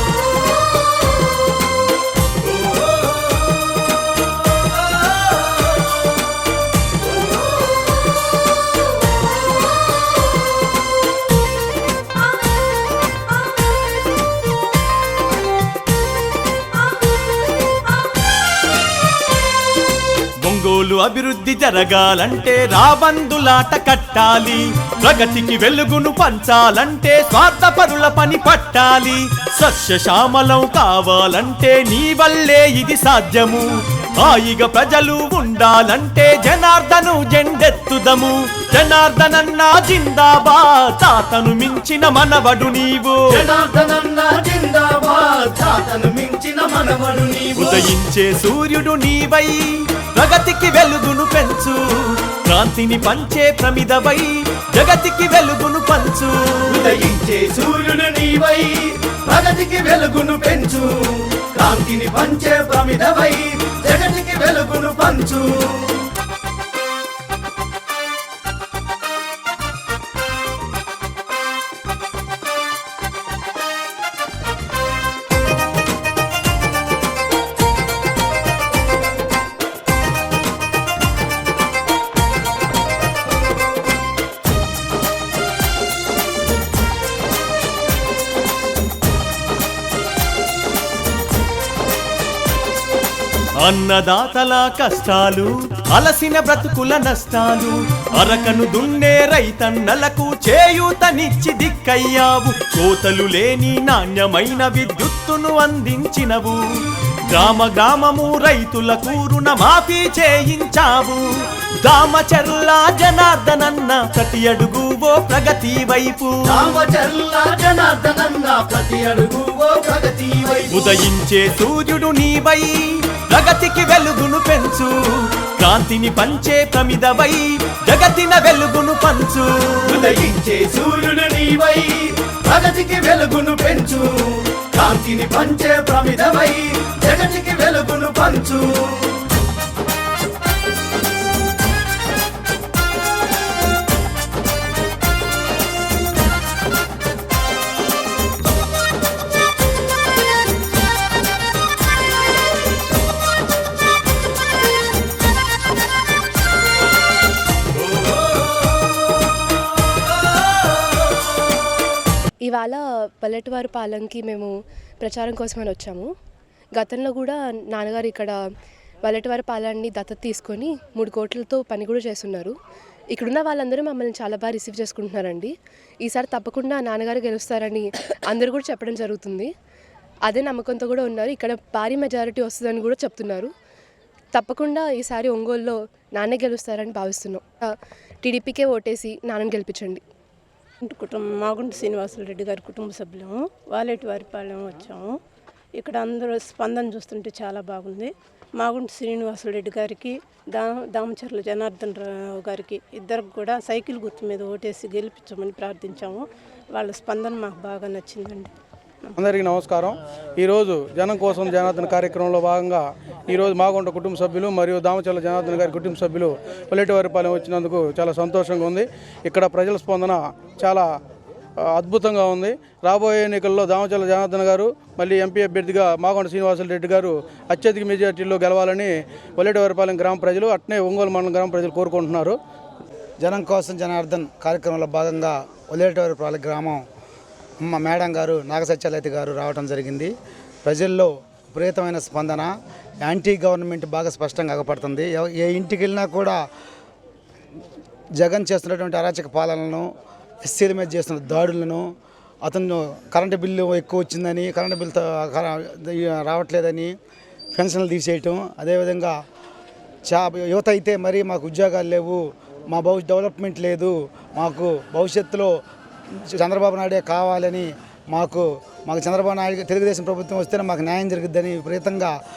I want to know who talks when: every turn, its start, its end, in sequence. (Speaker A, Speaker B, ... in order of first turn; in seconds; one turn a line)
Speaker A: 20.4-43.4
Speaker B: 43.4-47.8
Speaker A: 47.5-49.6
Speaker A: 50.1-56.3
Speaker B: 56.7-65.9
Speaker A: 93.6-106.6
Speaker A: 107.3-111.2
Speaker A: 111.8-116.7
Speaker B: 116.5-120.8
Speaker A: 120.7-129.9
Speaker B: 129.9-139.1
Speaker C: 162.4-166.1
Speaker C: 166.8-168.4
Speaker C: 169.1-172.6
Speaker C: 173.1-175.5
Speaker C: 176.0-179.5
Speaker C: 180.3-183.5
Speaker C: 184.3-187.4
Speaker C: 188.2-190.0
Speaker D: 190.9-195.1
Speaker D: 195.8-208.5
Speaker E: 209.2-220.9
Speaker E: 221.6-232.4
Speaker F: 233.2-236.8
Speaker F: 237.6-240.1
Speaker F: 240.6-242.5
Speaker F: 243.0-246.4
Speaker F: 248.2-249.9
Speaker F: 250.4-251.9
Speaker F: 252.4-256.9
Speaker F: 257.5-259.1
Speaker F: 260.1-265.5
Speaker F: 266.3-272.1